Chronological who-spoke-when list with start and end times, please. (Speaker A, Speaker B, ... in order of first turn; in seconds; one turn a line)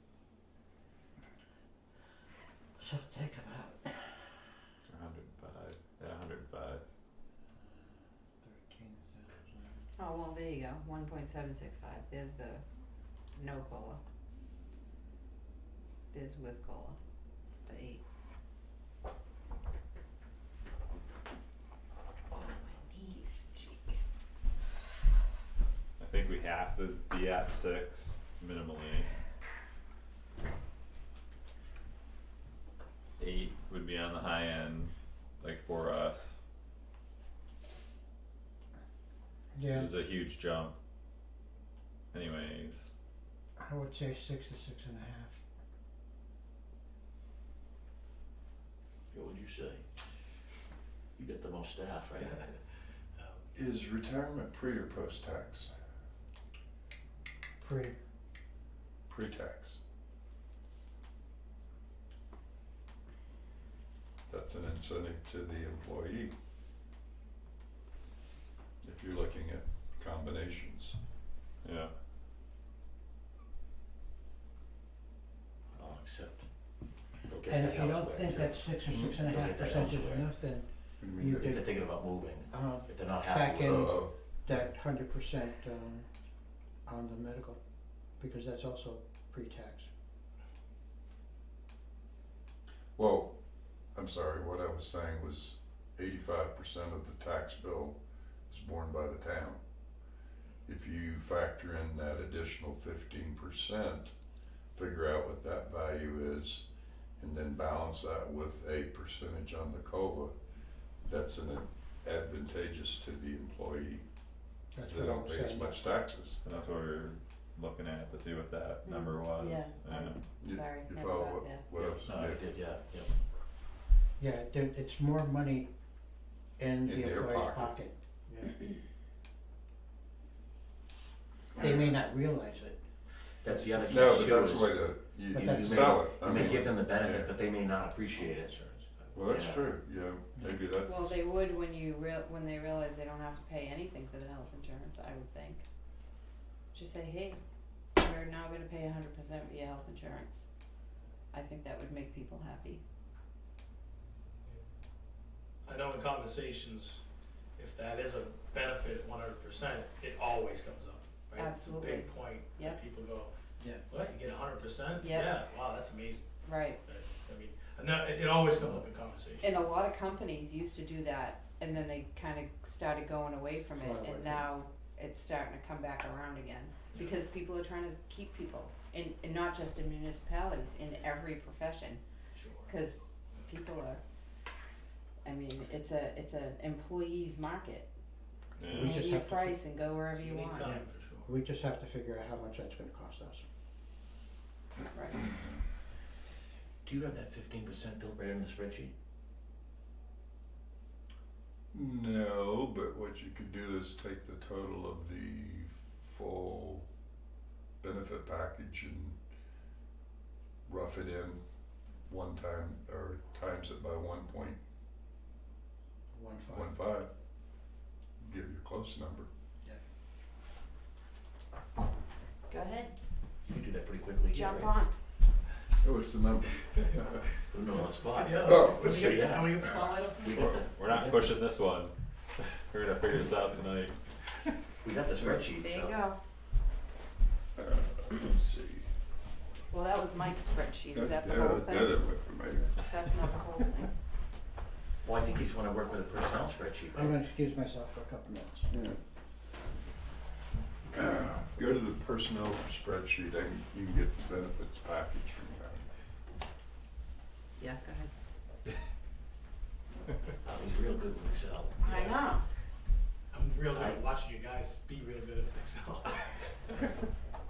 Speaker A: 2.8-4.3
Speaker B: 4.9-6.8
Speaker A: 7.6-9.8
Speaker C: 10.0-12.6
Speaker C: 13.3-14.0
Speaker C: 16.1-17.0
Speaker C: 17.7-18.0
Speaker C: 22.3-24.1
Speaker B: 26.0-29.1
Speaker B: 33.2-36.4
Speaker A: 39.5-39.9
Speaker B: 39.7-40.8
Speaker B: 42.1-42.9
Speaker A: 43.6-45.4
Speaker D: 49.1-49.9
Speaker D: 51.1-52.6
Speaker E: 53.1-53.4
Speaker F: 53.5-55.7
Speaker A: 57.6-58.0
Speaker F: 59.1-59.8
Speaker F: 64.3-66.3
Speaker F: 68.8-71.0
Speaker B: 71.6-71.9
Speaker D: 75.8-76.5
Speaker D: 77.0-80.3
Speaker A: 77.5-81.8
Speaker F: 78.9-79.3
Speaker F: 81.0-81.5
Speaker D: 81.2-83.9
Speaker A: 82.5-86.1
Speaker F: 83.6-84.1
Speaker A: 86.9-87.6
Speaker A: 88.2-89.9
Speaker F: 93.0-93.4
Speaker F: 93.9-98.0
Speaker F: 98.5-99.6
Speaker F: 100.7-104.1
Speaker F: 104.8-106.7
Speaker F: 107.2-110.3
Speaker F: 111.0-114.0
Speaker A: 114.8-115.8
Speaker F: 114.8-116.4
Speaker B: 116.4-120.2
Speaker C: 118.8-121.7
Speaker F: 120.4-122.4
Speaker D: 121.8-123.1
Speaker A: 124.2-125.7
Speaker A: 126.6-128.6
Speaker F: 126.8-127.8
Speaker A: 131.6-132.8
Speaker D: 133.4-134.9
Speaker F: 133.8-137.4
Speaker A: 135.3-136.7
Speaker D: 135.4-138.6
Speaker E: 138.2-139.4
Speaker F: 139.1-141.2
Speaker D: 139.3-139.7
Speaker C: 140.8-145.6
Speaker C: 146.7-147.4
Speaker C: 148.0-150.5
Speaker C: 151.3-152.8
Speaker E: 155.7-157.0
Speaker E: 157.6-163.3
Speaker C: 161.4-162.8
Speaker E: 163.8-166.2
Speaker C: 165.0-165.4
Speaker C: 166.4-166.8
Speaker E: 166.8-169.7
Speaker C: 169.4-182.0
Speaker A: 173.8-174.5
Speaker E: 176.9-177.2
Speaker E: 182.3-182.8
Speaker C: 182.7-184.0
Speaker C: 185.2-187.9
Speaker B: 188.6-189.1
Speaker A: 188.7-189.7
Speaker C: 188.8-190.7
Speaker E: 190.1-191.3
Speaker A: 190.7-193.5
Speaker C: 194.9-195.2
Speaker D: 196.8-198.9
Speaker F: 201.7-206.9
Speaker F: 207.8-209.2
Speaker F: 210.7-211.4
Speaker F: 212.1-214.6
Speaker A: 216.1-216.9
Speaker F: 216.5-217.1
Speaker F: 218.2-219.3
Speaker C: 222.5-222.9
Speaker D: 223.5-224.8
Speaker C: 224.3-224.9
Speaker F: 225.8-227.3
Speaker D: 227.5-231.4
Speaker E: 227.8-230.3
Speaker F: 228.4-230.7
Speaker B: 230.7-234.0
Speaker D: 234.8-236.0
Speaker F: 235.2-235.4
Speaker C: 235.6-236.2
Speaker F: 237.6-238.9
Speaker C: 239.7-242.2
Speaker F: 240.9-242.7
Speaker C: 242.8-243.9
Speaker D: 245.0-247.2
Speaker A: 246.9-248.7
Speaker F: 248.7-249.0
Speaker F: 250.9-255.9
Speaker C: 257.6-258.1
Speaker D: 260.4-261.9
Speaker C: 261.8-262.4
Speaker E: 261.9-262.2
Speaker E: 263.3-266.4
Speaker D: 263.7-264.0